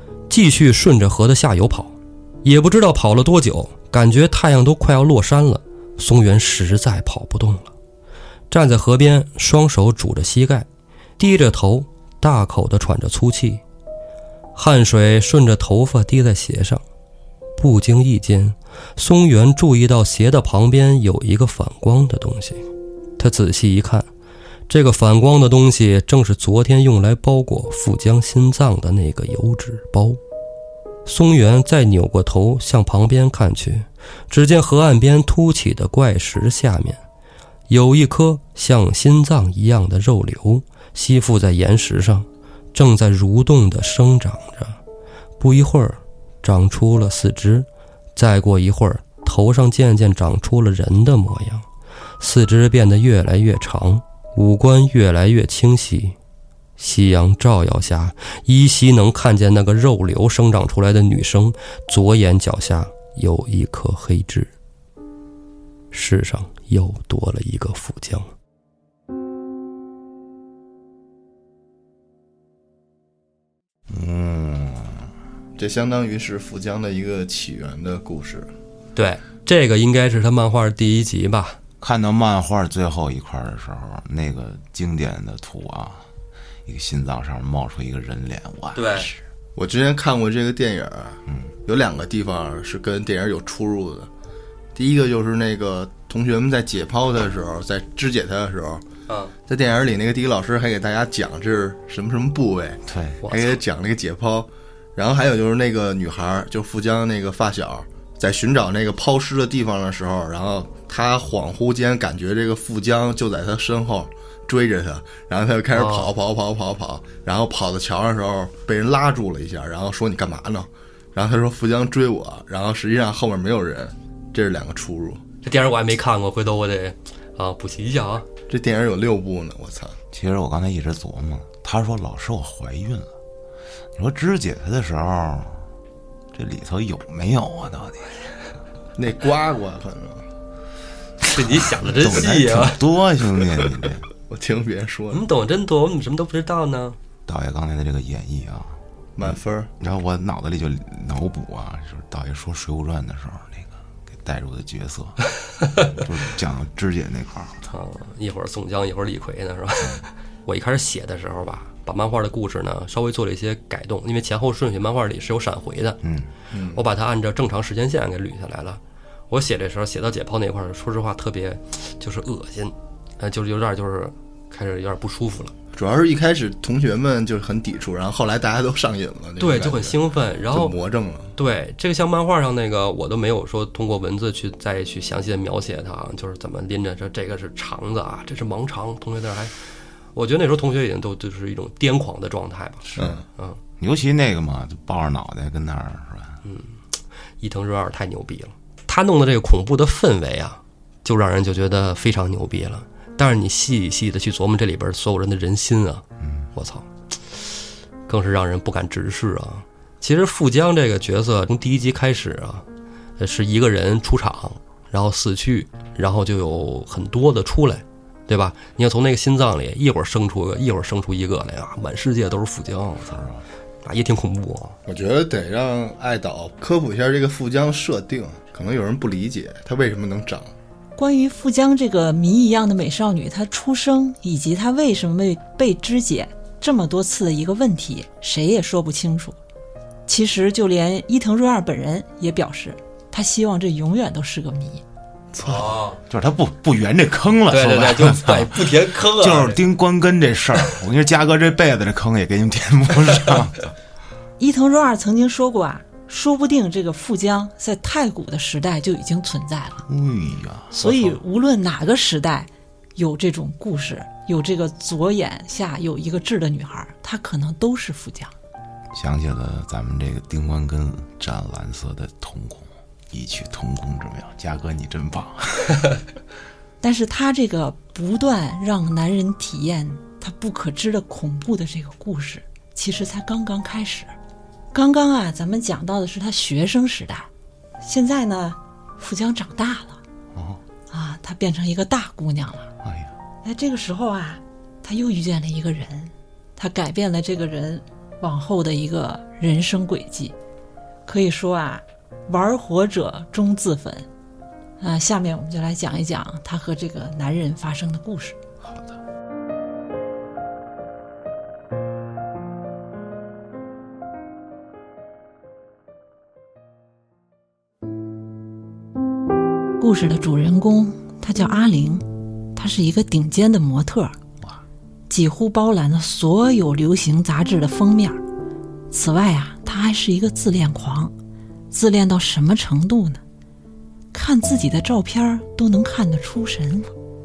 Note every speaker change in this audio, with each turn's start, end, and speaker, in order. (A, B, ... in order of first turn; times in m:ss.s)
0:00.3-0:07.7 A
0:08.5-0:10.7 A
0:11.2-0:13.6 A
0:14.5-0:16.8 A
0:17.6-0:22.6 A
0:23.2-0:24.0 A
0:24.7-0:30.2 A
0:31.0-0:37.0 A
0:37.7-0:44.8 A
0:45.4-0:51.6 A
0:52.2-0:56.1 A
0:56.8-1:04.5 A
1:05.9-1:08.3 A
1:13.9-1:15.1 B
1:15.6-1:18.5 C
1:19.0-1:21.6 A
1:21.8-1:26.0 B
1:26.6-1:29.2 B
1:28.7-1:29.1 A
1:29.6-1:34.1 C
1:34.7-1:38.8 C
1:39.5-2:05.2 C
1:42.8-1:43.2 B
1:43.2-1:43.6 A
1:55.7-1:56.1 A
2:05.4-2:08.2 A
2:08.5-2:10.0 C
2:10.1-2:13.1 B
2:14.0-2:15.6 B
2:16.3-2:18.1 B
2:19.0-2:20.2 C
2:21.3-2:24.0 B
2:21.3-2:22.8 A
2:24.3-2:25.2 C
2:25.1-2:27.0 A
2:27.3-2:35.2 B
2:29.2-2:29.7 C
2:35.8-2:37.7 B
2:37.7-2:46.0 A
2:46.0-2:46.3 B
2:46.5-2:46.8 C
2:46.7-2:55.5 A
2:55.7-3:00.0 C
2:59.4-3:00.7 A
3:00.5-3:01.3 C
3:01.4-3:09.5 A
3:10.1-3:13.6 A
3:12.9-3:13.2 B
3:13.0-3:13.2 C
3:13.8-3:16.4 B
3:16.4-3:16.7 A
3:17.4-3:26.0 A
3:26.2-3:26.5 B
3:26.5-3:27.4 A
3:28.1-3:32.6 A
3:33.2-3:43.2 A
3:43.0-3:43.4 B
3:43.8-3:44.8 A
3:44.8-3:50.5 C
3:51.0-3:59.4 D
4:00.1-4:04.8 D
4:05.3-4:13.7 B
4:05.4-4:06.0 A
4:07.5-4:09.6 A
4:14.4-4:19.8 D
4:19.9-4:20.7 B
4:20.7-4:28.3 D
4:28.9-4:35.9 B
4:36.8-4:44.1 D
4:44.7-4:47.3 D
4:47.8-4:50.0 D
4:50.3-4:50.6 B
4:50.9-4:52.7 D
4:52.8-4:53.1 B
4:53.4-5:00.4 D
5:01.0-5:04.0 D
5:04.8-5:08.4 D
5:08.6-5:09.0 B
5:19.8-5:24.2 D
5:25.1-5:28.2 D
5:28.9-5:31.1 D
5:31.7-5:33.2 D
5:34.1-5:36.9 D